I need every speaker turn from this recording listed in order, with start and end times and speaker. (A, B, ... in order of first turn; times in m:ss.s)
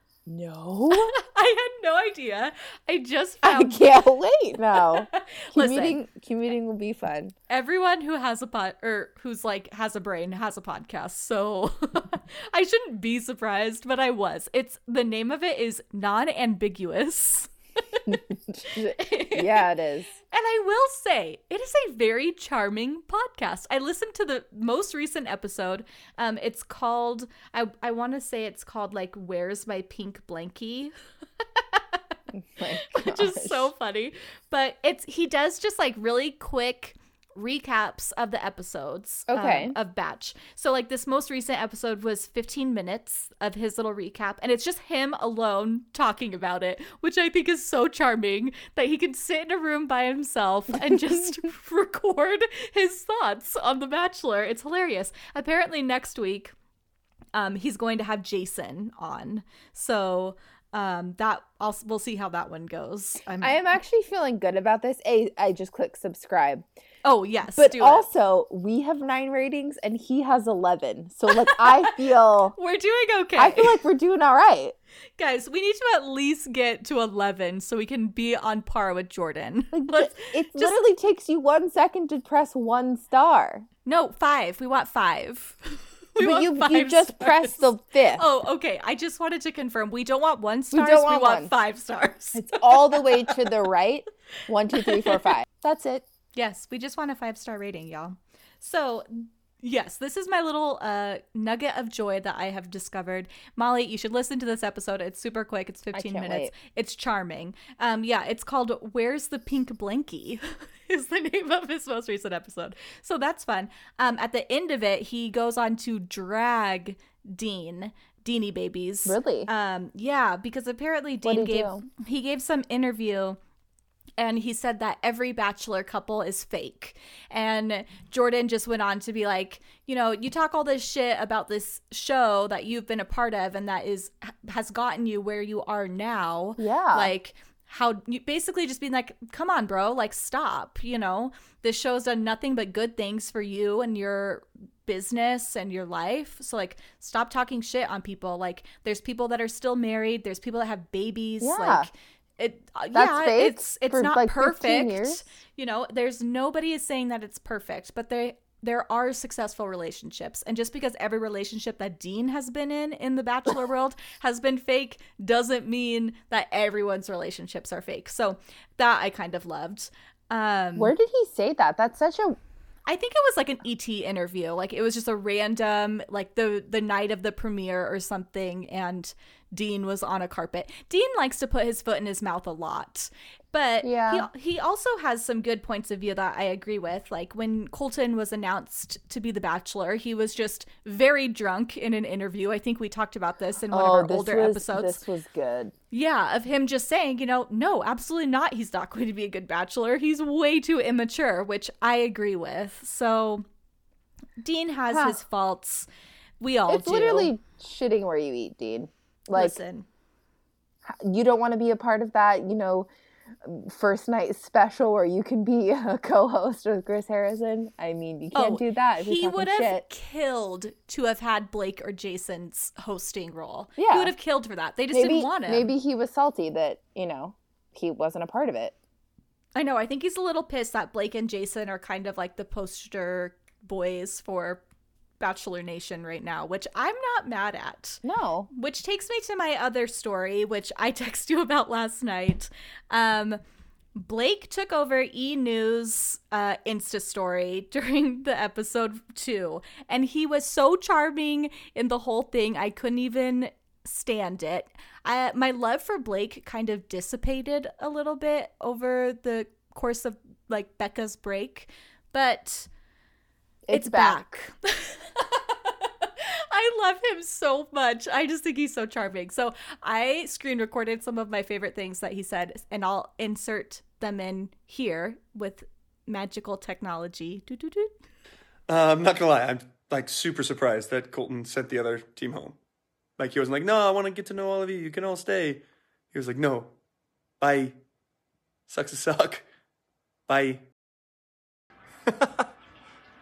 0:00.2-0:01.1 A
0:00.9-0:03.8 B
0:03.4-0:07.3 A
0:04.7-0:06.0 B
0:07.5-0:18.2 B
0:18.1-0:20.2 A
0:18.9-0:19.7 B
0:20.3-0:30.9 B
0:31.6-0:32.0 B
0:32.3-0:33.7 A
0:32.9-0:56.5 B
0:39.3-0:39.8 A
0:57.3-1:03.6 B
1:03.4-1:06.7 A
1:07.0-1:08.1 B
1:07.5-1:12.6 A
1:11.3-1:11.9 B
1:12.5-1:13.8 B
1:13.4-1:14.7 A
1:15.2-1:20.8 B
1:19.7-1:23.7 A
1:23.8-1:33.4 B
1:26.2-1:28.2 A
1:30.7-1:31.5 A
1:32.3-1:36.1 A
1:34.7-1:35.3 B
1:36.3-2:03.4 B
1:45.9-1:46.5 A
1:59.0-1:59.5 A
2:01.2-2:01.8 A
2:04.2-2:50.9 B
2:16.6-2:17.1 A
2:31.4-2:31.9 A
2:32.9-2:35.2 A
2:50.8-2:52.4 A
2:52.9-3:15.0 B
3:03.8-3:04.3 A
3:13.7-3:15.7 A
3:15.9-3:23.4 B
3:24.4-3:25.9 B
3:24.9-3:25.2 A
3:26.4-3:27.3 B
3:26.7-3:29.6 A
3:29.3-3:29.8 B
3:30.8-3:32.9 A
3:33.4-3:39.8 A
3:38.3-3:45.7 B
3:43.8-3:44.1 A
3:44.9-3:48.8 A
3:49.5-3:54.6 B
3:55.2-4:03.4 B
3:58.0-3:58.5 A
4:03.9-4:22.7 B
4:23.7-4:24.3 A
4:23.7-4:37.9 B
4:38.7-4:42.6 C
4:43.2-4:46.7 C
4:47.4-4:47.8 C
4:48.7-4:49.4 C
4:50.3-4:50.6 C
4:52.1-4:52.4 C